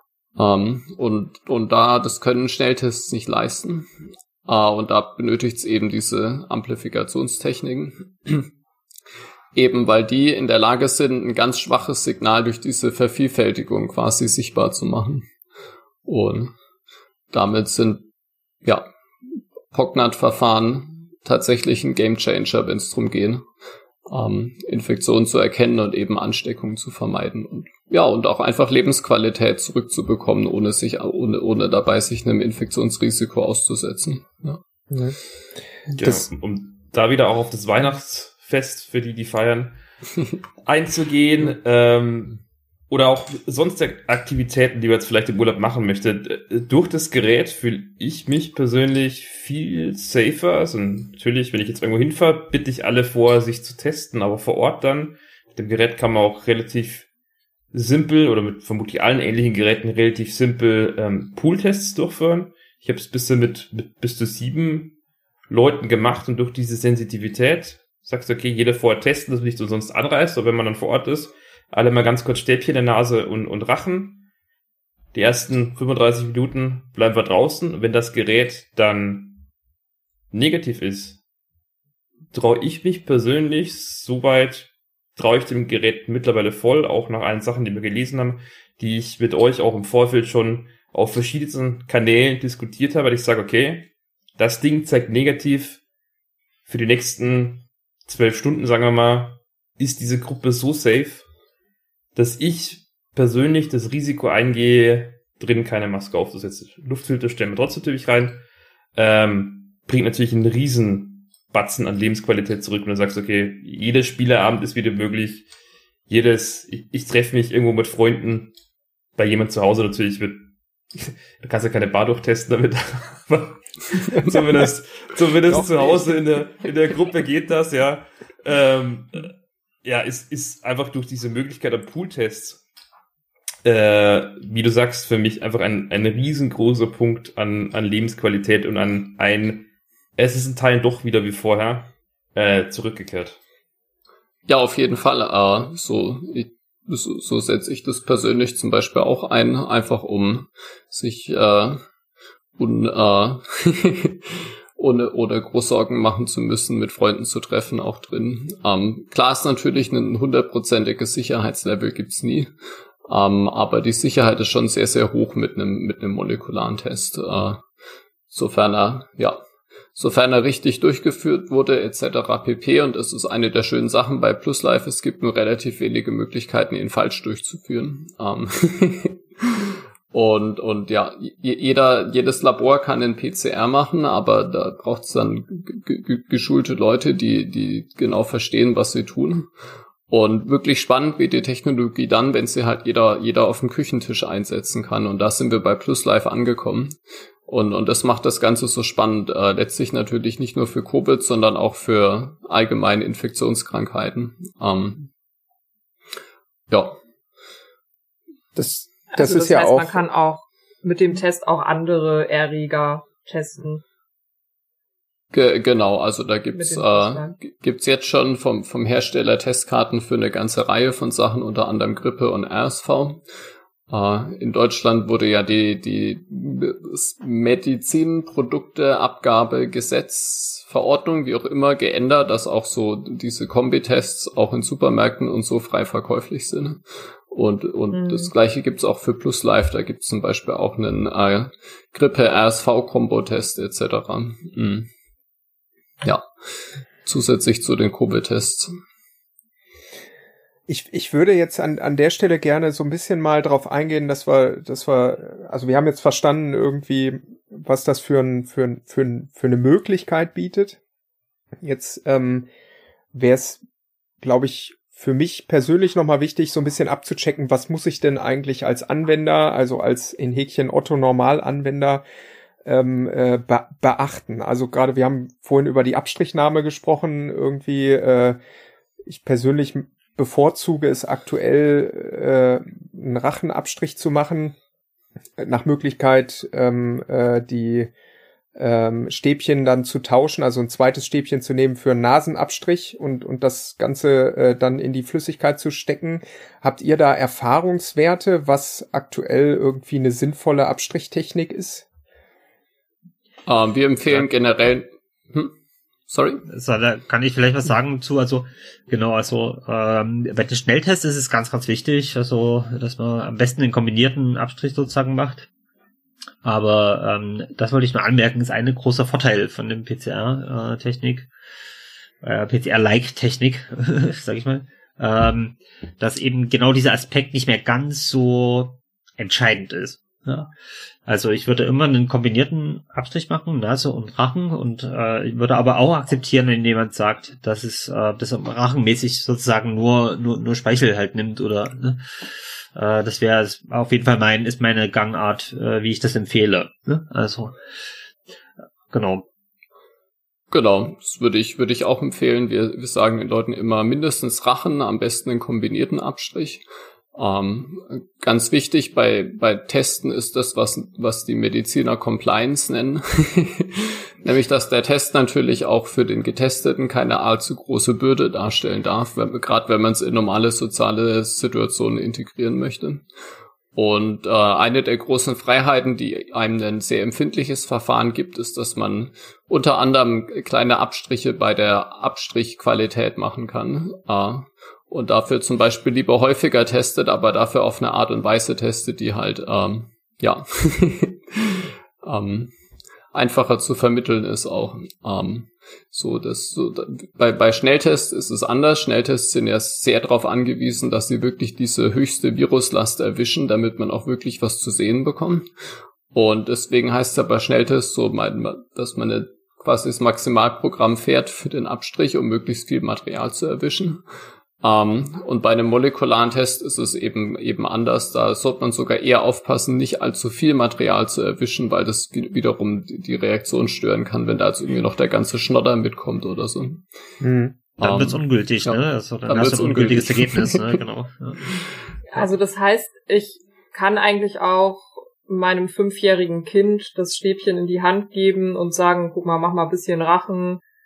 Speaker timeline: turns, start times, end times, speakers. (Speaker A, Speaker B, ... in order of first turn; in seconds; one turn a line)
Speaker A: 0.4-3.9
Speaker A: 4.5-8.5
Speaker A: 9.6-15.3
Speaker A: 16.1-16.5
Speaker A: 17.3-18.1
Speaker A: 18.6-18.9
Speaker A: 19.7-23.4
Speaker A: 24.1-34.6
Speaker B: 35.9-39.8
Speaker B: 40.6-57.1
Speaker B: 57.7-65.0
Speaker B: 65.5-74.3
Speaker B: 75.1-79.4
Speaker B: 80.3-81.2
Speaker B: 82.3-95.8
Speaker B: 96.7-101.2
Speaker B: 102.2-108.4
Speaker B: 109.0-115.5
Speaker B: 116.1-118.5
Speaker B: 119.2-132.6
Speaker C: 124.2-124.5
Speaker C: 125.5-126.2
Speaker B: 133.6-143.4
Speaker A: 144.5-151.8
Speaker A: 152.6-162.5
Speaker A: 163.1-167.7
Speaker A: 168.3-169.4
Speaker A: 169.9-189.5
Speaker A: 190.1-205.1
Speaker A: 206.7-207.0
Speaker C: 208.6-210.0
Speaker D: 209.1-213.8
Speaker A: 215.3-223.2
Speaker D: 216.6-217.3
Speaker A: 223.9-244.9
Speaker D: 237.9-238.3
Speaker A: 247.1-248.7
Speaker C: 250.7-260.8
Speaker C: 261.6-262.5
Speaker C: 263.1-263.6
Speaker C: 264.2-272.0
Speaker C: 272.6-278.4
Speaker C: 279.1-284.6
Speaker C: 285.4-287.9
Speaker C: 288.6-301.9
Speaker A: 303.5-305.5
Speaker A: 306.1-306.4
Speaker E: 306.5-315.5
Speaker E: 316.4-321.3
Speaker E: 322.2-330.5
Speaker E: 331.1-347.6
Speaker E: 348.9-349.2
Speaker A: 350.5-356.6
Speaker A: 357.1-373.0
Speaker A: 373.7-392.5
Speaker A: 393.1-405.5
Speaker A: 406.1-414.0
Speaker A: 414.6-426.8
Speaker C: 427.2-427.6
Speaker A: 427.8-430.8
Speaker E: 427.8-431.6
Speaker D: 432.1-440.6